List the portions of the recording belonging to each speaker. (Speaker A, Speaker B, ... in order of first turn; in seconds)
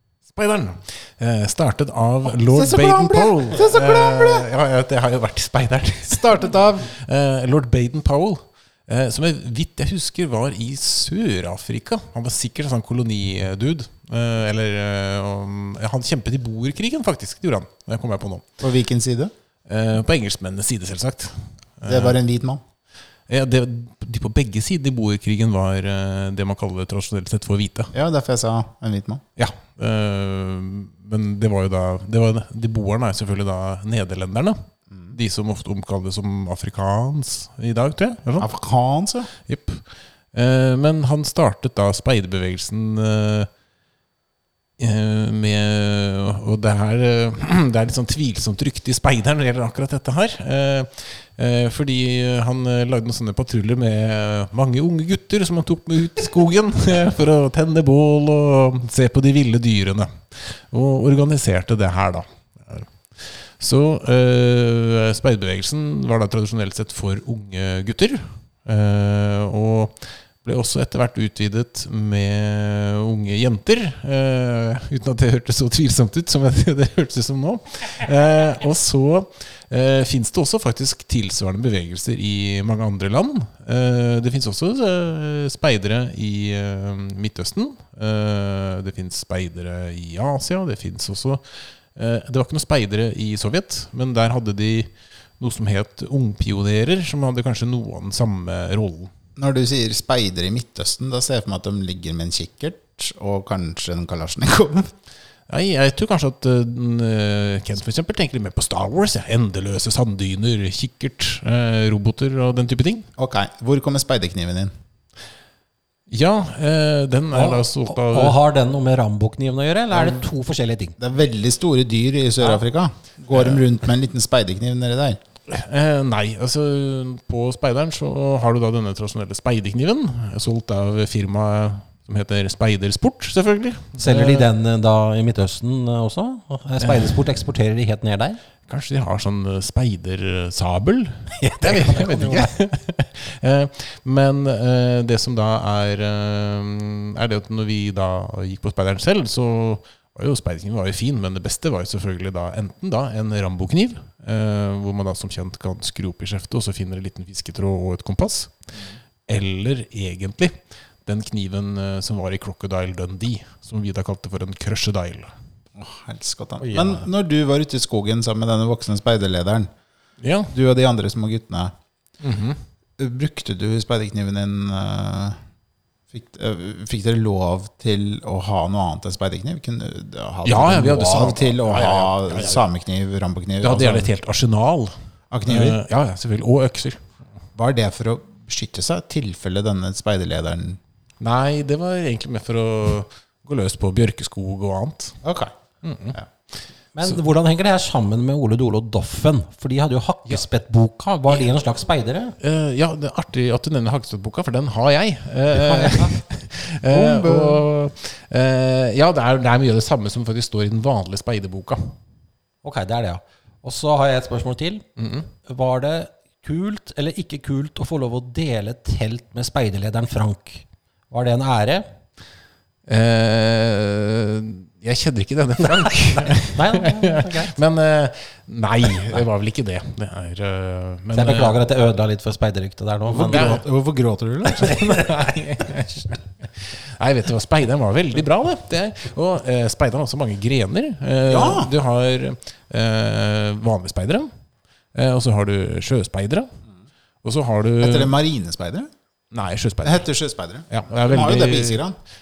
Speaker A: 0.3-18.4, 19.7-22.2, 23.3-27.9, 29.4-34.6, 35.1-38.5, 39.5-43.5, 44.8-91.4, 91.9-99.1, 105.5-113.1, 116.1-118.4, 123.3-123.6, 125.5-134.5, 136.8-137.2, 138.7-158.5, 159.3-160.5, 161.1-165.3, 170.2-170.5, 172.2-172.6, 180.4-182.6, 183.6-184.9, 185.4-187.0, 191.2-195.2, 195.8-196.2, 202.4-211.9, 215.0-215.3, 222.9-231.6, 233.1-233.6, 234.6-244.3, 244.9-246.6, 247.2-248.1, 249.3-250.1, 250.7-251.8
Speaker B: 2.3-4.5, 6.1-6.9, 18.6-19.3, 21.9-22.6, 27.9-29.2, 38.4-39.3, 99.4-104.9, 113.2-114.7, 121.0-125.2, 165.7-169.7, 170.5-171.7, 173.0-175.4, 176.1-184.1, 185.3-185.8, 187.6-190.8, 195.2-195.5, 233.1-234.8, 241.3-241.7, 247.8-248.9, 249.8-251.9
Speaker C: 117.3-120.9, 134.0-138.4, 141.3-142.5, 166.6-167.0, 196.9-202.3, 205.5-206.2, 206.9-207.6, 212.6-214.8, 215.5-221.8, 225.8-227.5, 231.1-233.5